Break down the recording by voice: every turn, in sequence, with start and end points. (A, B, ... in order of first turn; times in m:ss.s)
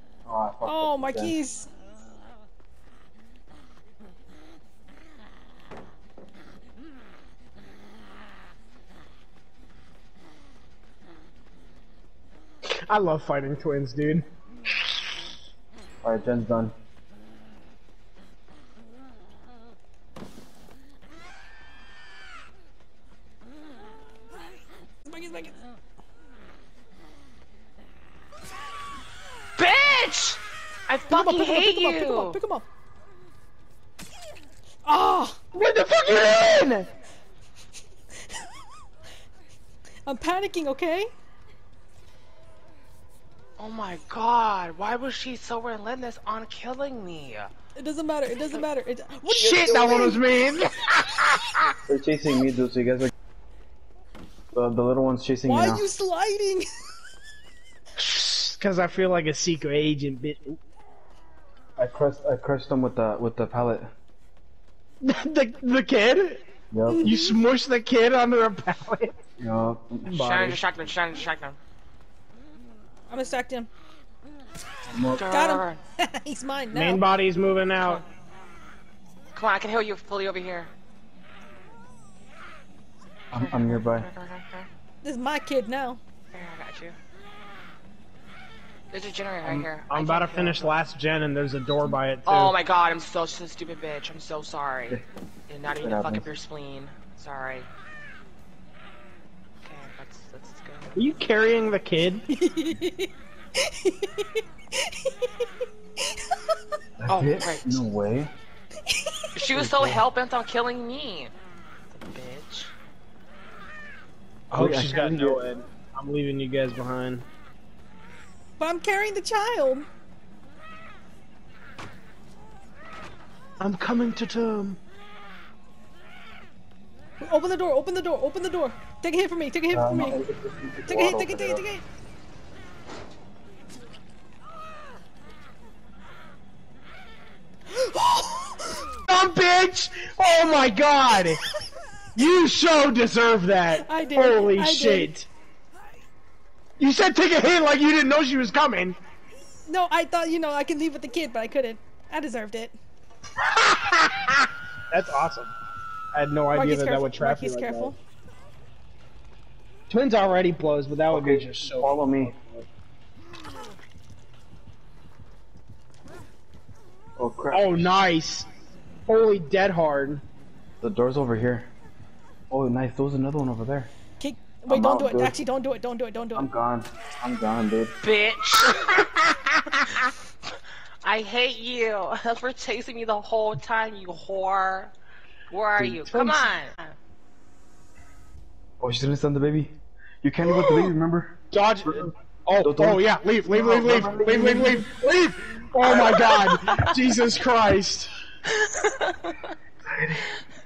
0:00.3-0:01.3 A
0:00.6-0:01.7 B
0:12.6-0:14.2 C
0:16.0-0:16.7 A
0:25.1-0:25.5 B
0:29.6-0:32.4 D
0:31.1-0:32.6 B
0:34.8-0:35.4 B
0:35.5-0:36.9 C
0:40.0-0:41.1 B
0:43.6-0:47.5 D
0:47.8-0:50.2 B
0:49.3-0:51.7 C
0:51.9-0:53.1 A
0:54.5-0:55.9 A
0:55.4-0:56.7 B
0:58.0-1:00.6 C
1:01.8-1:03.9 A
1:05.0-1:06.4 C
1:06.7-1:07.2 A
1:07.0-1:09.2 C
1:09.4-1:10.6 A
1:10.0-1:11.6 D
1:13.1-1:13.7 B
1:14.9-1:15.2 A
1:15.2-1:15.8 D
1:15.2-1:17.0 B
1:16.7-1:18.0 C
1:19.3-1:20.7 D
1:23.3-1:24.1 A
1:23.3-1:24.7 D
1:25.0-1:26.0 B
1:26.3-1:27.0 D
1:28.9-1:30.7 D
1:29.9-1:32.5 C
1:32.3-1:37.7 D
1:35.8-1:36.3 A
1:39.6-1:41.0 D
1:40.9-1:42.2 C
1:42.3-1:45.4 B
1:47.0-1:48.3 A
1:47.1-1:47.9 D
1:48.8-1:49.3 B
1:49.3-1:51.3 D
1:49.5-1:50.0 A
1:51.9-1:52.7 D
1:54.5-1:57.2 C
1:54.5-1:55.4 A
1:58.6-1:59.9 B
2:03.6-2:04.8 C
2:07.2-2:10.2 B
2:09.7-2:11.6 A
2:10.8-2:11.8 B
2:17.7-2:18.9 B
2:19.1-2:21.4 C
2:22.1-2:25.3 C
2:23.8-2:25.1 B
2:26.8-2:29.0 C
2:29.7-2:32.8 B
2:33.4-2:35.5 C
2:36.1-2:38.0 C
2:36.5-2:37.9 B
2:39.9-2:42.4 C
2:41.1-2:42.6 A
2:47.2-2:48.0 A
2:47.5-2:48.5 C
2:49.0-2:50.2 C
2:50.8-2:51.7 A
2:52.5-2:53.9 A
2:54.2-2:56.5 B
2:54.7-2:55.3 A
2:56.3-2:57.9 A
2:58.0-3:00.1 D
3:01.0-3:04.9 D
3:05.5-3:06.9 D
3:06.1-3:06.4 C
3:08.8-3:15.0 A
3:10.5-3:10.8 D
3:11.5-3:18.1 C
3:15.9-3:16.9 D
3:18.5-3:19.5 D
3:19.8-3:20.3 A